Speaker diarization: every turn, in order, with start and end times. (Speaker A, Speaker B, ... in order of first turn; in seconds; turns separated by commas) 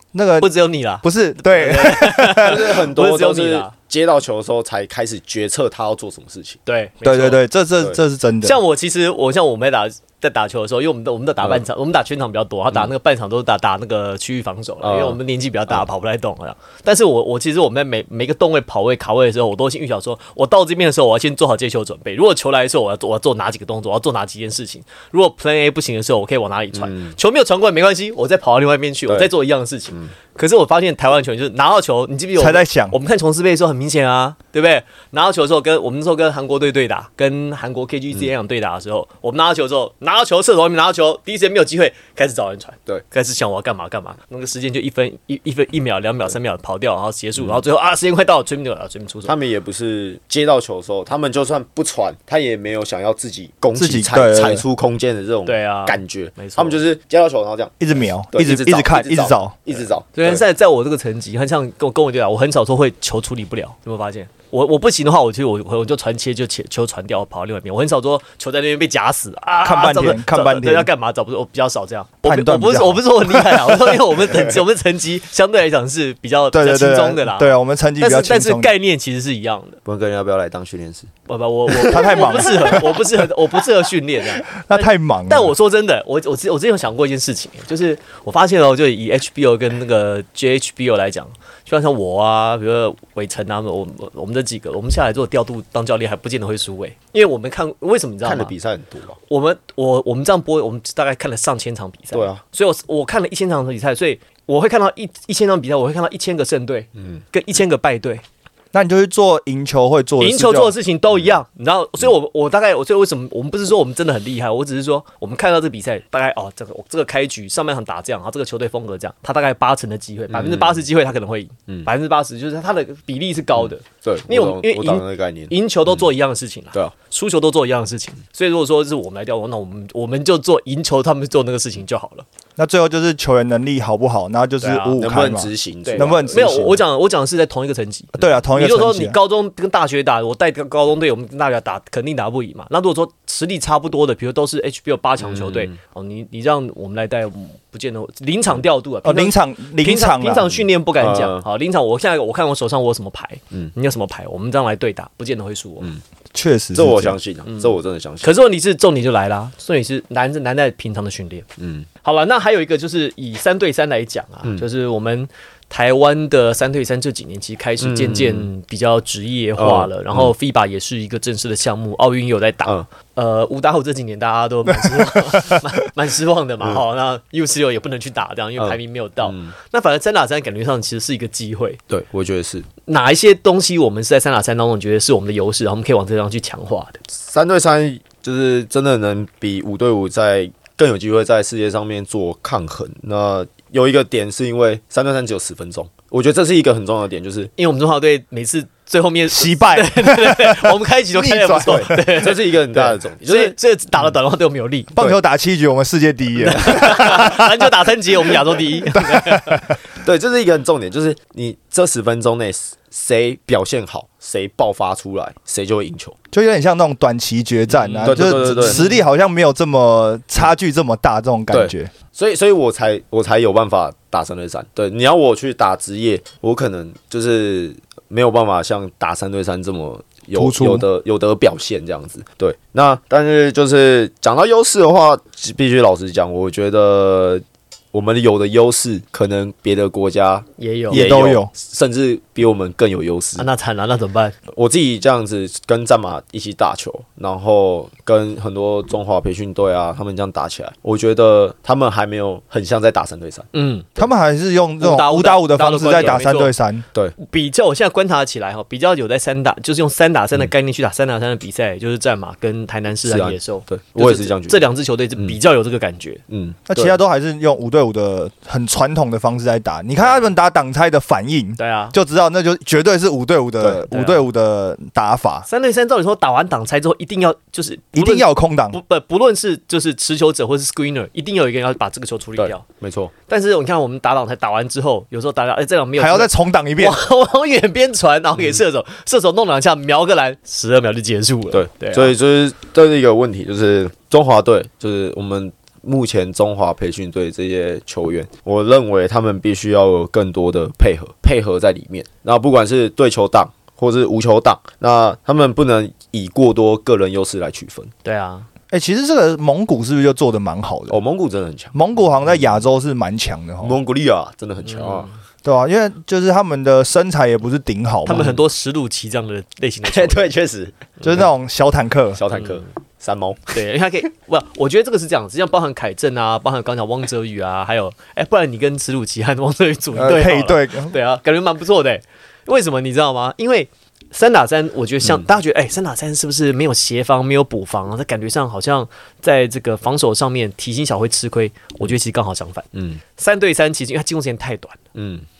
Speaker A: 0.1-0.5, Speaker B: 0.4-3.7, Speaker A: 1.0-2.6, Speaker C: 2.4-6.6, Speaker B: 6.7-7.4, Speaker A: 7.0-8.6, Speaker B: 8.4-49.3, Speaker C: 14.8-15.2, Speaker C: 26.7-27.1, Speaker A: 32.4-33.0, Speaker C: 49.3-60.4, Speaker A: 53.8-54.6, Speaker B: 55.5-56.8, Speaker A: 57.8-59.6, Speaker B: 60.2-79.8, Speaker A: 69.6-70.9, Speaker A: 72.2-74.0, Speaker C: 74.3-74.6, Speaker A: 76.5-78.7, Speaker C: 79.8-81.1, Speaker B: 81.3-98.5, Speaker A: 81.8-83.0, Speaker A: 84.5-85.5, Speaker C: 98.2-99.2, Speaker B: 99.3-108.2, Speaker C: 102.1-102.4, Speaker C: 107.0-107.2, Speaker A: 108.7-110.8, Speaker B: 110.2-132.3, Speaker C: 120.3-120.8, Speaker C: 123.6-126.0, Speaker A: 132.6-136.8, Speaker B: 134.6-135.0, Speaker C: 135.0-136.8, Speaker B: 135.9-155.9, Speaker A: 138.2-139.2, Speaker C: 145.2-145.8, Speaker A: 149.0-150.5, Speaker C: 151.0-151.4, Speaker A: 156.3-157.2, Speaker C: 156.7-158.3, Speaker B: 157.5-161.5, Speaker C: 161.6-161.9, Speaker B: 162.0-181.8, Speaker C: 167.8-168.5, Speaker C: 169.6-170.3, Speaker A: 174.8-175.6, Speaker C: 178.6-179.5, Speaker C: 181.9-182.7, Speaker B: 182.9-187.0, Speaker C: 187.1-197.5, Speaker B: 197.6-204.9, Speaker A: 199.3-202.0, Speaker C: 201.7-203.6, Speaker A: 205.0-207.7, Speaker B: 206.4-209.6, Speaker A: 208.9-209.7, Speaker C: 210.0-216.2, Speaker A: 216.3-221.9, Speaker B: 217.7-219.0, Speaker C: 218.0-218.8, Speaker C: 221.5-243.5, Speaker A: 230.3-230.8, Speaker B: 240.6-241.1, Speaker A: 240.9-241.5, Speaker B: 243.4-244.4, Speaker C: 244.5-253.5, Speaker B: 253.5-254.1, Speaker A: 254.0-256.9, Speaker B: 254.8-256.5, Speaker B: 257.2-266.2, Speaker C: 263.1-264.6, Speaker C: 266.3-267.0, Speaker A: 266.7-275.5, Speaker B: 270.0-270.3, Speaker B: 271.6-272.0, Speaker B: 273.9-274.2, Speaker B: 275.5-282.6, Speaker A: 277.9-278.8, Speaker C: 282.4-283.1, Speaker B: 283.3-292.1, Speaker A: 286.0-287.0, Speaker C: 291.5-307.9, Speaker B: 308.0-308.5, Speaker A: 308.7-311.0, Speaker C: 310.9-312.6, Speaker A: 311.7-313.8, Speaker C: 313.6-315.1, Speaker B: 314.6-315.1, Speaker A: 315.4-318.3, Speaker B: 318.1-320.3, Speaker C: 318.1-318.4, Speaker C: 319.8-321.3, Speaker A: 321.0-322.2, Speaker C: 322.1-323.6, Speaker B: 322.3-322.6, Speaker B: 323.5-344.8, Speaker A: 329.9-330.9, Speaker C: 342.8-343.0, Speaker C: 344.9-345.3